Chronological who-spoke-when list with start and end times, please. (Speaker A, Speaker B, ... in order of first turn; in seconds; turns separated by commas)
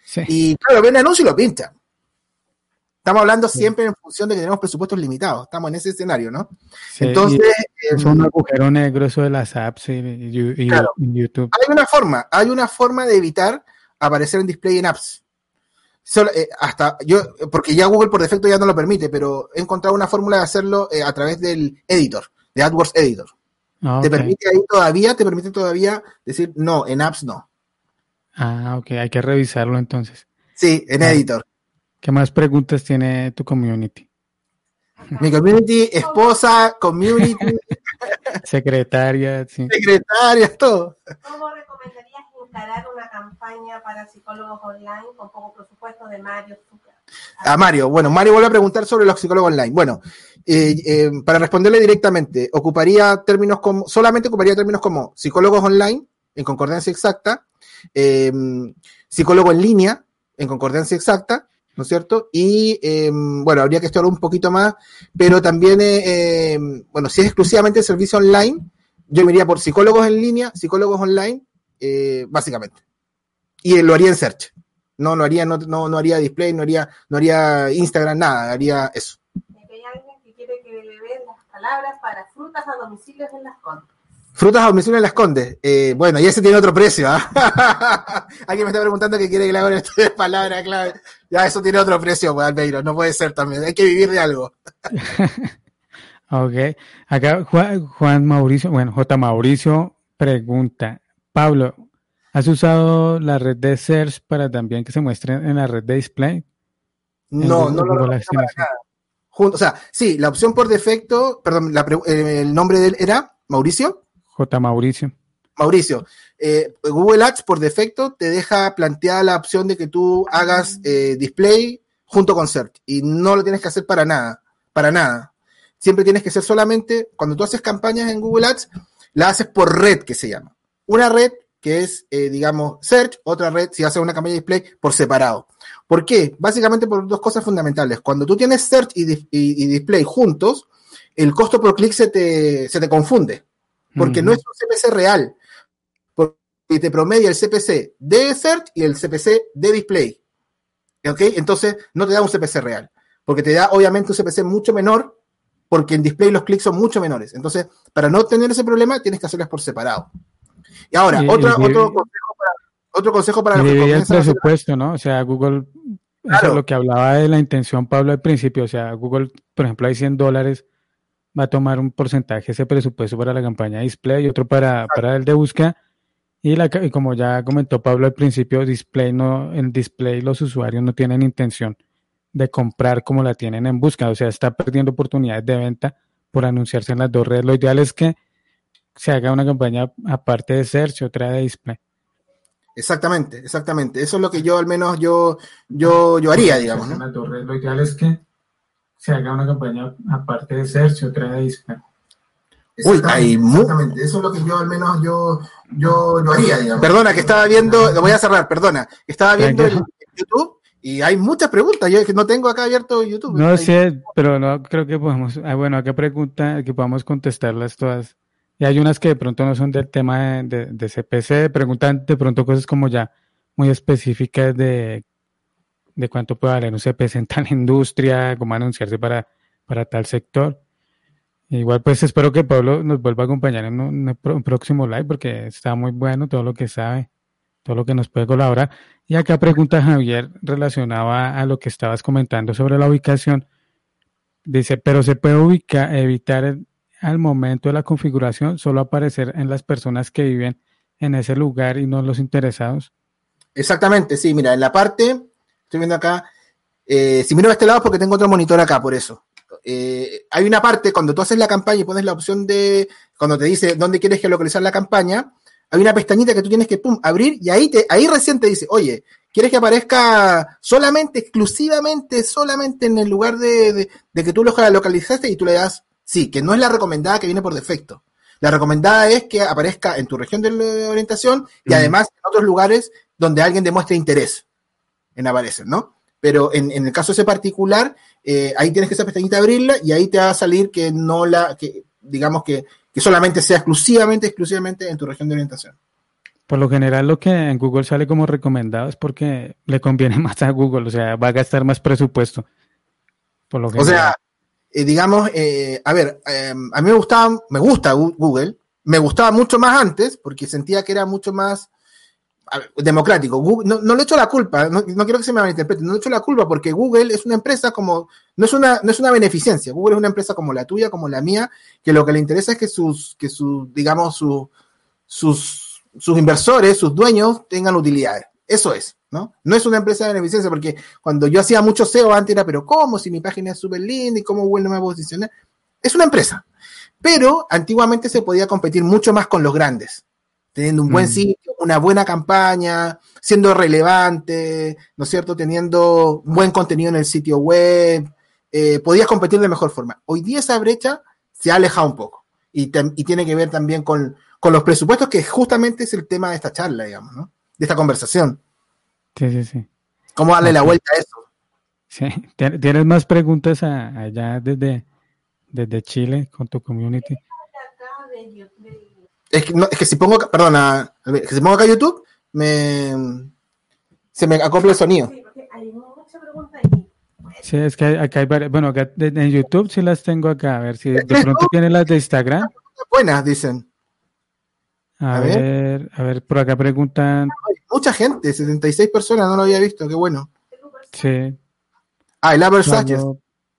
Speaker A: 0.3-1.7, Speaker A: 3.0-8.3, Speaker B: 7.0-11.5, Speaker A: 11.5-15.2, Speaker A: 16.1-23.3, Speaker B: 23.9-24.3, Speaker A: 24.0-27.4, Speaker B: 28.4-30.2, Speaker A: 30.6-31.4, Speaker B: 32.0-34.1, Speaker C: 35.0-35.5, Speaker A: 35.2-38.4, Speaker C: 36.0-36.4, Speaker B: 38.5-39.7, Speaker A: 39.7-41.0, Speaker C: 41.2-47.0, Speaker A: 47.4-57.4, Speaker A: 58.0-72.8, Speaker A: 73.6-79.2, Speaker C: 79.5-83.9, Speaker A: 84.4-94.5, Speaker B: 94.9-95.5, Speaker B: 96.3-101.8, Speaker B: 102.3-106.4, Speaker A: 107.3-108.8, Speaker B: 107.4-108.7, Speaker A: 109.3-114.0, Speaker B: 114.3-115.1, Speaker A: 115.6-140.7, Speaker A: 141.2-143.4, Speaker B: 144.0-144.4, Speaker A: 144.0-145.4, Speaker A: 146.2-150.2, Speaker A: 151.0-155.2, Speaker A: 155.7-160.1, Speaker A: 160.9-164.5, Speaker B: 161.1-162.1, Speaker B: 163.6-170.6, Speaker A: 166.3-166.6, Speaker B: 171.3-175.8, Speaker B: 176.4-181.8, Speaker B: 182.3-188.2, Speaker B: 189.0-191.8, Speaker A: 192.8-197.0, Speaker B: 195.8-198.2, Speaker B: 199.0-201.8, Speaker A: 202.8-213.8, Speaker B: 209.4-209.9, Speaker B: 213.3-225.0, Speaker B: 226.0-230.6, Speaker B: 231.5-237.1, Speaker B: 237.7-243.4, Speaker B: 244.5-252.9, Speaker A: 253.6-256.3, Speaker A: 256.9-284.4, Speaker B: 281.7-281.9, Speaker A: 285.2-295.7, Speaker B: 296.5-302.4, Speaker B: 303.5-304.1, Speaker A: 303.8-304.2, Speaker A: 304.7-311.7, Speaker A: 312.5-324.5, Speaker A: 325.1-335.3, Speaker A: 335.8-336.4, Speaker A: 337.0-340.0, Speaker A: 340.6-358.4, Speaker B: 340.9-341.2, Speaker B: 359.2-359.7, Speaker A: 360.2-361.2, Speaker B: 360.4-360.8, Speaker B: 361.9-364.8, Speaker B: 365.5-367.2, Speaker C: 367.0-369.1, Speaker A: 369.3-373.3, Speaker A: 374.1-375.1, Speaker C: 375.0-377.4, Speaker B: 377.4-382.5, Speaker A: 381.0-381.5, Speaker A: 382.5-383.6, Speaker B: 385.0-387.4, Speaker A: 385.1-385.4, Speaker A: 387.4-390.3, Speaker C: 390.5-391.1, Speaker B: 390.9-391.4, Speaker A: 392.2-393.0, Speaker B: 392.6-393.2